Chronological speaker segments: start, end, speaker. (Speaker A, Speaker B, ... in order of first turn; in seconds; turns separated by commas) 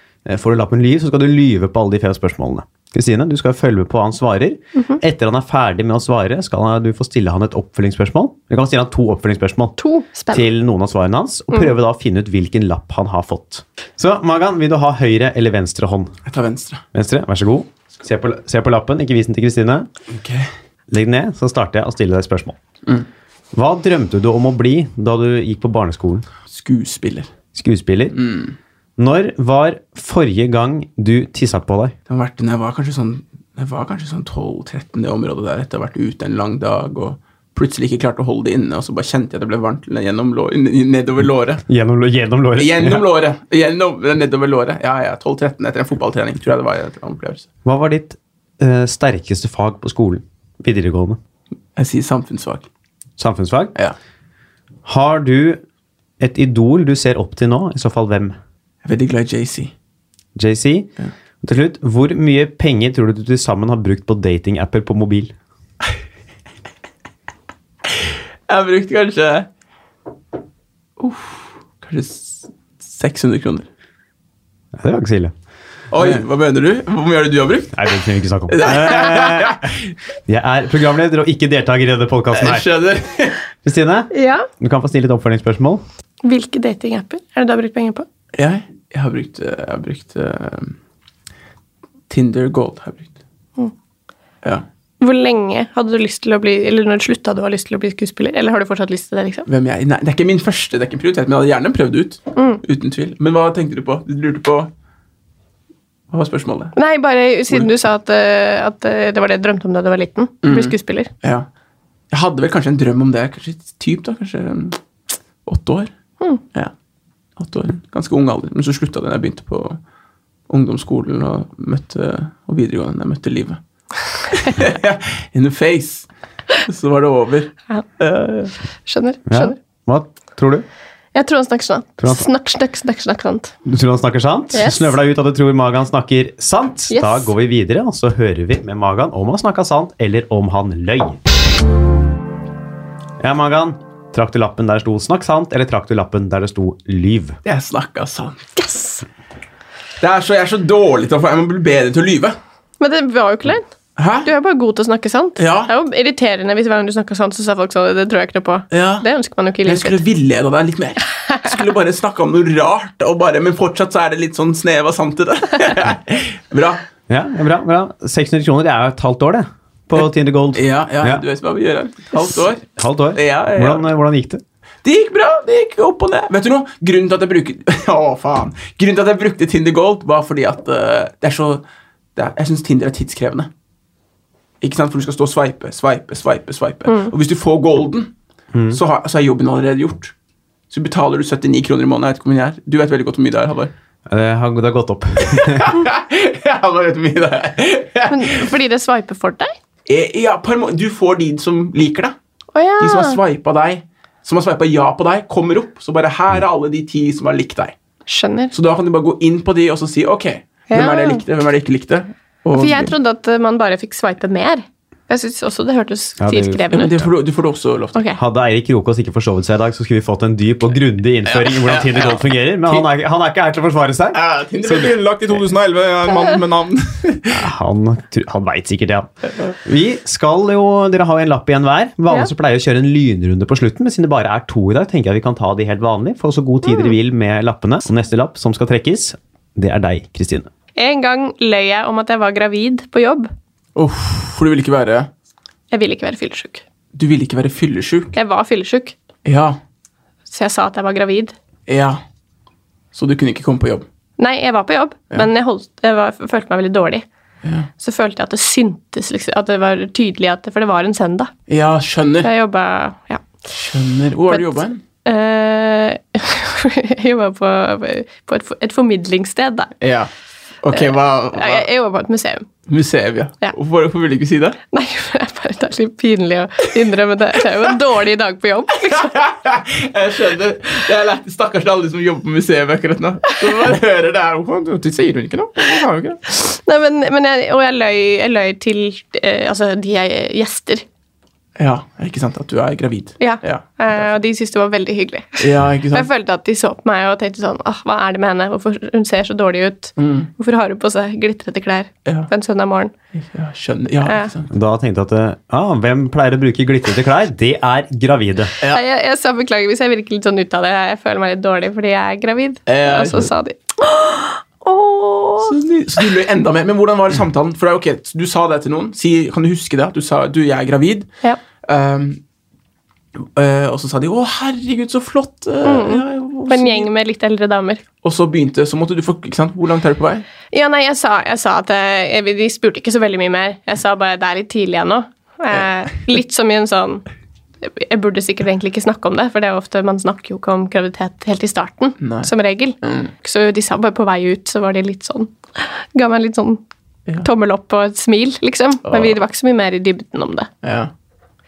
Speaker A: 0.3-9.8, Speaker B: 9.8-10.5, Speaker A: 10.3-16.1, Speaker C: 16.3-16.8, Speaker A: 16.9-19.9, Speaker C: 20.1-20.5, Speaker A: 20.9-22.6, Speaker A: 23.5-26.3, Speaker C: 26.5-27.3, Speaker A: 27.5-28.2, Speaker C: 28.1-28.6, Speaker A: 29.0-31.9, Speaker C: 32.1-41.6, Speaker A: 41.7-43.0, Speaker C: 42.6-47.5, Speaker A: 47.6-51.2, Speaker C: 51.8-52.7, Speaker A: 53.2-53.7, Speaker A: 54.9-55.6, Speaker A: 56.2-58.4, Speaker C: 58.8-59.7, Speaker A: 60.4-60.9, Speaker A: 61.4-65.3, Speaker C: 68.0-69.5, Speaker C: 71.0-73.7, Speaker A: 74.8-75.3, Speaker C: 75.9-79.8, Speaker A: 76.0-76.2, Speaker A: 77.7-79.7, Speaker A: 80.3-82.7, Speaker C: 82.3-83.4, Speaker A: 83.6-85.8, Speaker B: 84.1-84.5, Speaker B: 86.2-88.0, Speaker C: 88.3-90.8, Speaker C: 92.1-93.2, Speaker B: 95.0-99.5, Speaker C: 99.5-104.7, Speaker B: 102.4-102.6, Speaker C: 106.1-106.8, Speaker B: 106.8-111.1, Speaker C: 110.4-111.5, Speaker C: 112.1-114.8, Speaker C: 115.5-115.9, Speaker C: 117.4-119.8, Speaker C: 120.5-123.6, Speaker C: 124.3-128.5, Speaker B: 128.9-129.6, Speaker A: 129.3-130.7, Speaker B: 131.1-133.5, Speaker A: 132.0-132.3, Speaker A: 133.7-141.2, Speaker B: 134.5-135.0, Speaker B: 136.9-137.3, Speaker A: 143.2-147.4, Speaker C: 147.4-148.5, Speaker B: 148.6-149.1, Speaker C: 150.0-152.4, Speaker B: 152.8-153.7, Speaker C: 154.0-154.3, Speaker B: 154.2-160.0, Speaker C: 155.4-155.7, Speaker C: 158.7-159.1, Speaker C: 159.7-166.8, Speaker A: 167.1-171.2, Speaker C: 170.5-173.9, Speaker A: 172.7-174.4, Speaker C: 174.8-181.6, Speaker C: 182.2-183.5, Speaker C: 184.6-188.1, Speaker A: 188.5-188.8, Speaker C: 188.7-190.1, Speaker C: 190.7-193.7, Speaker A: 194.1-195.8, Speaker C: 195.3-198.5, Speaker B: 198.1-199.6, Speaker C: 199.9-202.2, Speaker B: 202.5-203.2, Speaker C: 202.8-207.8, Speaker B: 208.1-208.5, Speaker C: 208.5-212.9, Speaker B: 210.7-211.2, Speaker B: 212.6-217.1, Speaker A: 216.2-216.7, Speaker C: 216.7-218.0, Speaker A: 218.2-225.0, Speaker C: 221.3-222.9, Speaker C: 224.1-227.4, Speaker A: 227.3-229.1, Speaker A: 229.6-240.5, Speaker B: 240.8-243.3, Speaker C: 243.8-245.1, Speaker B: 245.7-246.7, Speaker C: 246.9-248.2, Speaker B: 248.1-248.9, Speaker C: 249.2-249.6, Speaker B: 250.3-251.3, Speaker C: 251.7-252.0, Speaker C: 252.9-253.8, Speaker B: 254.2-257.1, Speaker B: 257.8-261.3, Speaker C: 261.5-262.3, Speaker B: 262.2-263.4, Speaker C: 263.6-264.8, Speaker B: 265.1-269.7, Speaker C: 269.8-270.1, Speaker C: 270.6-271.6, Speaker B: 270.7-272.5, Speaker C: 272.7-274.6, Speaker B: 274.7-279.1, Speaker C: 278.9-286.2, Speaker B: 286.3-290.8, Speaker C: 291.6-293.8, Speaker B: 293.2-302.9, Speaker C: 295.4-296.1, Speaker C: 300.0-300.3, Speaker C: 303.1-304.5, Speaker A: 304.5-308.6, Speaker B: 308.7-315.6, Speaker C: 312.7-313.3, Speaker C: 315.4-321.1, Speaker C: 321.6-322.2, Speaker C: 323.2-326.9, Speaker B: 325.6-327.8, Speaker C: 328.0-330.3, Speaker B: 330.5-337.1, Speaker B: 337.6-346.6, Speaker C: 342.0-342.3, Speaker B: 347.2-350.5, Speaker C: 348.9-349.2, Speaker C: 350.6-350.9